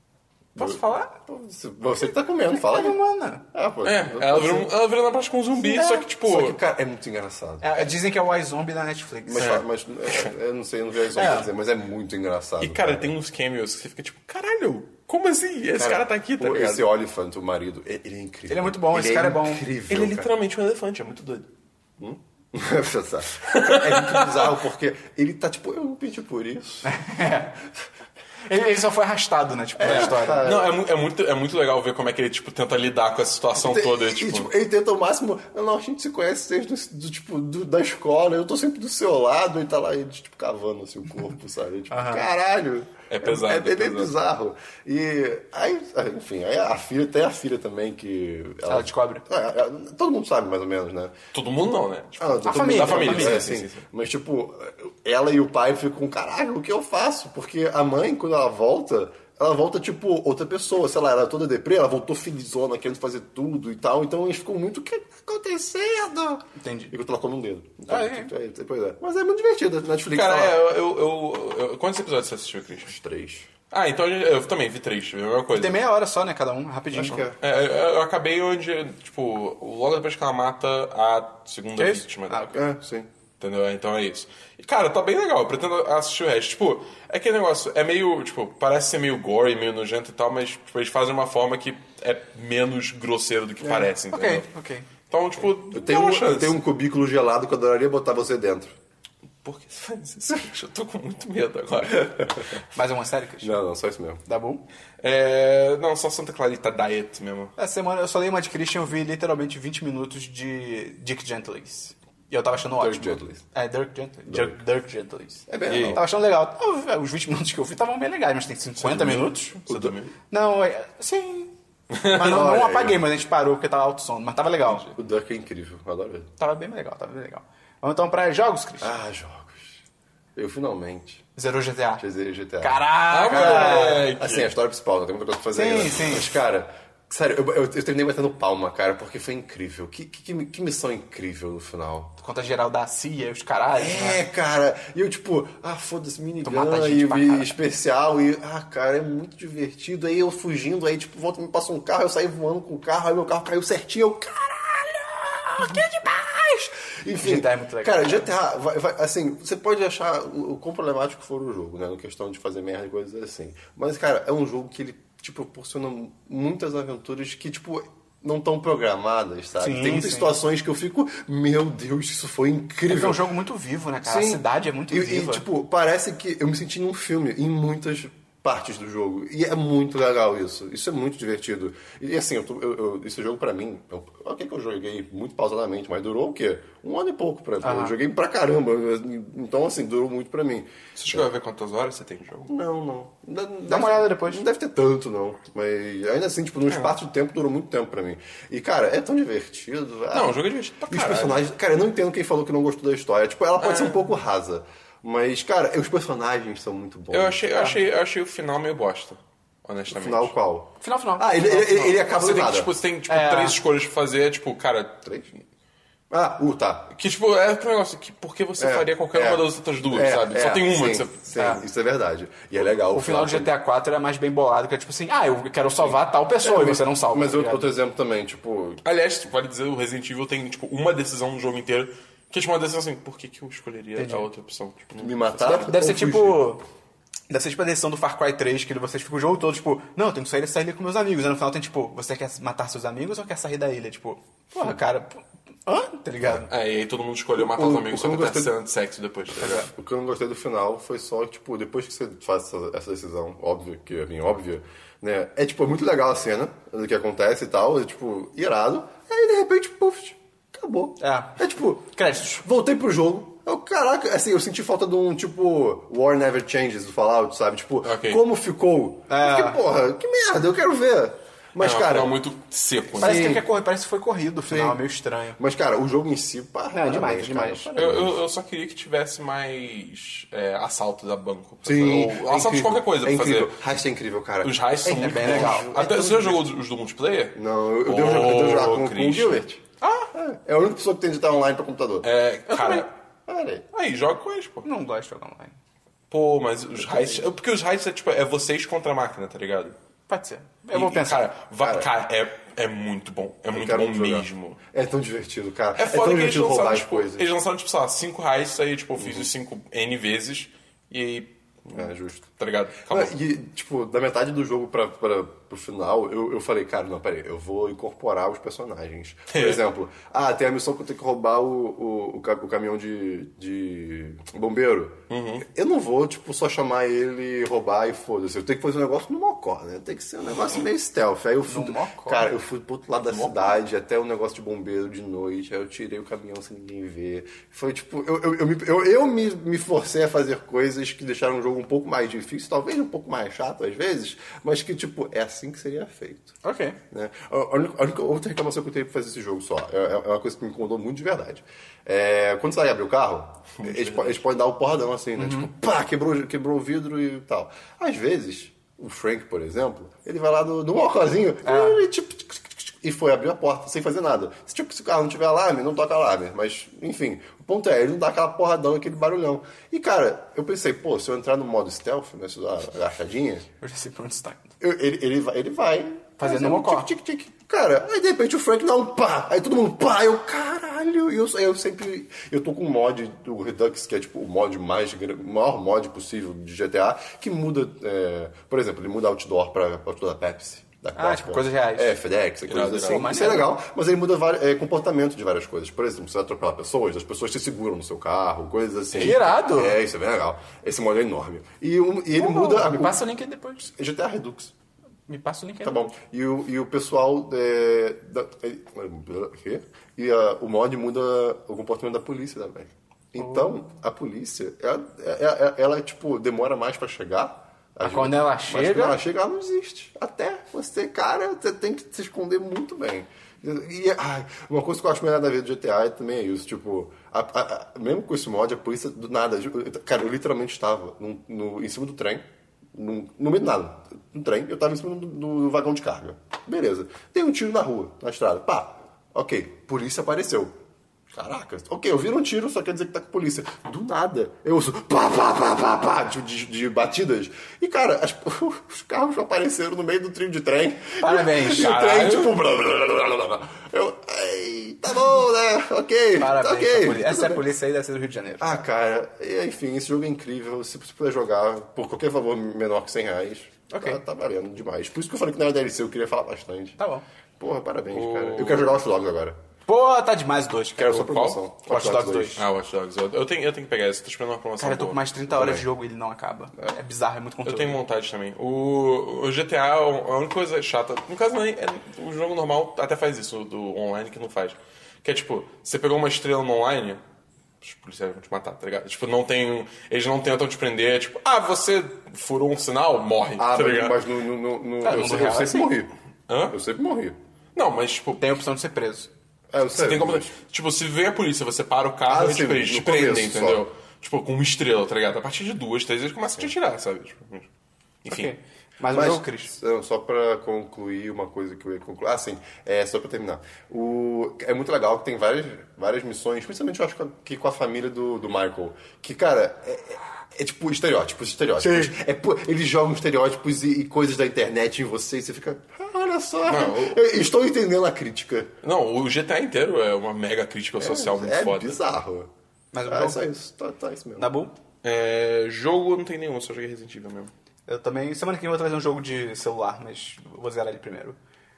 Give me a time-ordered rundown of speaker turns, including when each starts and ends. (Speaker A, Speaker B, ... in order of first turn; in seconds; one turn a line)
Speaker A: 0.6-1.1
Speaker B: 0.6-3.0
Speaker A: 2.5-3.4
Speaker B: 3.5-4.7
Speaker C: 3.8-6.6
Speaker B: 5.6-7.9
Speaker A: 7.6-9.6
Speaker B: 9.3-13.1
Speaker C: 9.4-10.3
Speaker A: 11.1-11.5
Speaker C: 12.6-16.8
Speaker B: 15.8-20.3
Speaker A: 18.5-19.7
Speaker C: 19.9-21.5
Speaker B: 22.0-27.0
Speaker C: 23.5-24.5
Speaker A: 26.8-27.6
Speaker A: 28.5-30.5
Speaker B: 29.8-30.8
Speaker C: 29.8-34.5
Speaker B: 33.6-51.2
Speaker A: 41.9-42.3
Speaker C: 43.1-44.1
Speaker A: 48.7-49.2
Speaker C: 51.3-53.9
Speaker B: 52.2-70.6
Speaker A: 52.4-53.5
Speaker A: 66.6-66.9
Speaker A: 67.9-68.3
Speaker C: 70.1-72.9
Speaker B: 72.9-73.5
Speaker C: 73.7-75.8
Speaker A: 75.5-77.2
Speaker B: 76.9-77.4
Speaker C: 77.4-82.6
Speaker A: 81.8-82.6
Speaker B: 82.5-83.1
Speaker C: 83.4-94.5
Speaker B: 93.6-93.9
Speaker A: 94.1-94.9
Speaker C: 95.1-96.6
Speaker B: 95.7-98.8
Speaker C: 99.4-102.6
Speaker A: 102.7-103.6
Speaker B: 103.4-104.2
Speaker A: 104.3-104.6
Speaker C: 105.0-107.5
Speaker A: 107.6-119.6
Speaker B: 112.7-113.4
Speaker B: 114.3-114.6
Speaker B: 115.5-116.0
Speaker C: 115.7-116.0
Speaker C: 118.8-120.1
Speaker B: 119.7-120.0
Speaker A: 120.3-121.5
Speaker C: 121.9-122.4
Speaker A: 122.0-124.9
Speaker B: 122.2-123.0
Speaker B: 124.9-126.3
Speaker A: 126.4-128.9
Speaker B: 128.8-129.8
Speaker B: 130.4-131.2
Speaker A: 131.4-132.1
Speaker B: 132.0-142.2
Speaker A: 132.6-134.1
Speaker C: 133.1-134.5
Speaker A: 135.5-136.4
Speaker A: 142.2-144.2
Speaker B: 143.8-173.2
Speaker A: 146.4-147.6
Speaker A: 157.2-158.3
Speaker A: 169.6-170.3
Speaker A: 172.9-175.5
Speaker B: 174.0-191.3
Speaker A: 187.6-188.0
Speaker C: 191.0-192.5
Speaker B: 192.5-207.5
Speaker A: 193.7-194.4
Speaker C: 196.7-197.0
Speaker C: 200.1-201.4
Speaker C: 203.6-204.1
Speaker C: 207.1-210.3
Speaker B: 209.9-212.7
Speaker A: 210.8-212.0
Speaker C: 212.0-215.1
Speaker A: 213.1-213.6
Speaker B: 216.1-216.9
Speaker C: 217.0-221.2
Speaker B: 218.6-223.5
Speaker A: 221.4-221.6
Speaker A: 222.9-227.7
Speaker B: 225.9-228.8
Speaker C: 228.8-235.7
Speaker A: 234.0-234.3
Speaker B: 235.0-236.5
Speaker A: 235.4-236.6
Speaker A: 237.3-246.5
Speaker C: 246.5-249.7
Speaker B: 247.4-248.5
Speaker B: 249.4-272.1
Speaker A: 249.4-249.7
Speaker A: 261.0-261.4
Speaker A: 261.9-262.3
Speaker C: 267.8-268.2
Speaker A: 269.1-269.6
Speaker C: 271.6-273.4
Speaker B: 273.0-273.4
Speaker A: 273.0-275.4
Speaker B: 274.5-274.8
Speaker B: 275.4-278.2
Speaker A: 276.7-277.7
Speaker C: 277.8-283.6
Speaker B: 281.6-286.4
Speaker C: 284.4-289.4
Speaker A: 284.8-285.9
Speaker B: 287.4-289.6
Speaker A: 289.8-290.1
Speaker B: 290.1-292.1
Speaker C: 292.0-292.9
Speaker A: 292.5-292.9
Speaker B: 293.3-293.7
Speaker C: 293.7-294.7
Speaker A: 294.6-295.6
Speaker C: 296.1-299.8
Speaker B: 296.8-297.2
Speaker A: 300.1-301.3
Speaker C: 300.7-304.6
Speaker B: 301.6-301.9
Speaker B: 303.5-307.3
Speaker C: 305.8-313.2
Speaker B: 309.0-309.3
Speaker B: 311.7-312.2
Speaker B: 312.9-346.4
Speaker C: 319.3-319.6
Speaker C: 325.1-325.5
Speaker A: 331.5-332.3
Speaker A: 346.4-346.8
Speaker B: 346.9-373.4
Speaker C: 353.6-354.2
Speaker A: 355.2-355.5
Speaker A: 361.4-361.8
Speaker A: 373.6-374.5
Speaker B: 374.6-403.0
Speaker A: 376.2-376.9
Speaker A: 391.0-392.0
Speaker C: 392.5-393.2
Speaker A: 392.7-393.6
Speaker A: 398.9-399.8
Speaker A: 402.1-403.7
Speaker B: 403.6-404.5
Speaker A: 405.1-405.9
Speaker B: 405.6-440.5
Speaker A: 413.2-413.5
Speaker A: 417.8-419.0
Speaker B: 441.1-457.4
Speaker A: 451.0-451.9
Speaker C: 451.6-452.3
Speaker A: 456.1-458.6
Speaker B: 458.4-466.8
Speaker A: 463.7-464.0
Speaker A: 466.8-467.1
Speaker B: 467.4-469.4
Speaker C: 467.9-468.8
Speaker A: 469.7-472.4
Speaker B: 470.8-472.4
Speaker C: 471.0-471.4
Speaker C: 472.4-475.1
Speaker A: 474.6-477.8
Speaker B: 475.3-475.6
Speaker C: 477.4-487.0
Speaker C: 487.6-494.0
Speaker B: 493.4-495.9
Speaker A: 494.8-495.7
Speaker C: 496.3-496.6
Speaker B: 496.5-497.1
Speaker C: 497.6-498.4
Speaker A: 498.2-499.1
Speaker B: 499.5-500.3
Speaker C: 499.7-507.5
Speaker B: 502.1-503.6
Speaker C: 508.1-508.3
Speaker A: 508.1-509.5
Speaker B: 508.9-528.5
Speaker A: 521.6-521.9
Speaker C: 526.5-527.3
Speaker C: 528.6-531.8
Speaker B: 530.8-532.3
Speaker A: 532.7-533.3
Speaker B: 532.9-534.3
Speaker A: 534.2-534.5
Speaker C: 534.8-537.3
Speaker A: 537.7-541.2